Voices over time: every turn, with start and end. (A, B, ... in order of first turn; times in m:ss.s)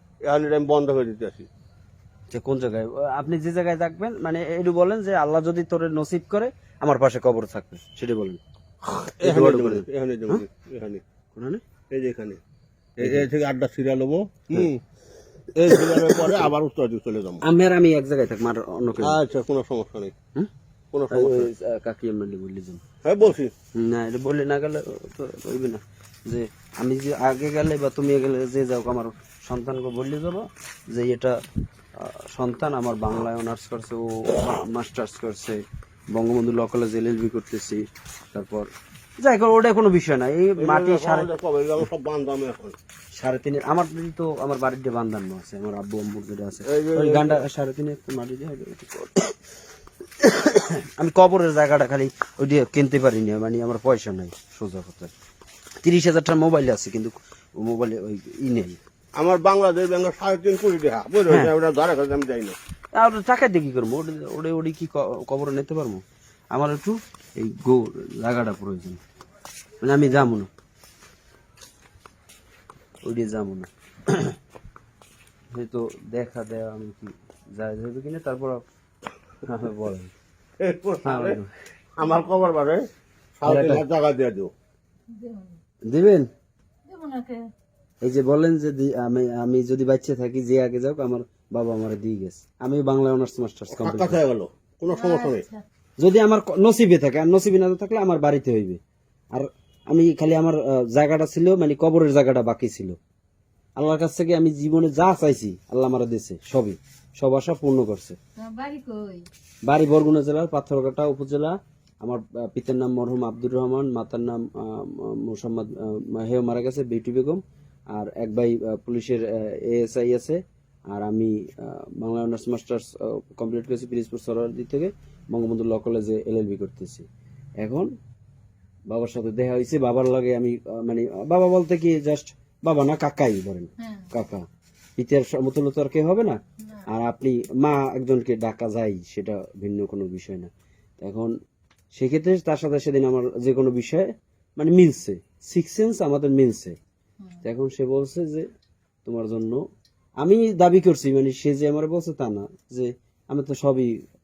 0:00.2-0:01.5 A
0:02.3-0:08.4 B
0:08.8-0:11.0 A
0:09.2-0:10.4 B
0:11.3-0:11.6 B
0:11.9-0:12.4 A
0:13.0-0:14.8 A
0:15.5-0:17.4 A
0:15.7-0:16.5 B
0:17.4-0:19.2 B
0:19.0-0:20.1 A
0:20.9-0:21.5 A
0:21.1-0:22.8 B
0:23.0-0:23.5 A
0:23.8-0:31.4 B
0:32.0-0:35.6 B
0:36.1-0:38.7 B
0:39.2-0:41.3 B
0:40.6-0:42.8 A
0:43.2-0:49.3 B
0:46.6-0:47.4 A
0:50.2-0:55.1 B
0:55.8-0:58.8 B
0:59.2-1:02.6 A
1:03.0-1:09.0 B
1:09.8-1:10.5 B
1:13.0-1:14.4 B
1:15.5-1:18.6 B
1:19.4-1:20.1 B
1:20.6-1:21.4 A
1:21.0-1:21.5 B
1:22.0-1:22.8 A
1:23.4-1:24.5 A
1:23.4-1:23.8 B
1:25.1-1:25.6 C
1:25.9-1:26.3 B
1:26.8-1:27.5 C
1:28.0-1:34.2 B
1:33.8-1:35.4 A
1:34.9-1:35.6 C
1:36.0-1:38.8 B
1:39.3-1:43.0 B
1:43.8-1:48.2 B
1:48.4-1:49.3 C
1:49.7-1:57.4 B
1:57.9-2:00.4 B
2:00.9-2:07.1 B
2:07.6-2:07.9 B
2:08.9-2:14.4 B
2:13.8-2:14.1 C
2:15.0-2:21.3 B
2:21.9-2:26.8 B
2:27.4-2:28.5 B
2:29.0-2:29.6 B
2:30.2-2:34.0 B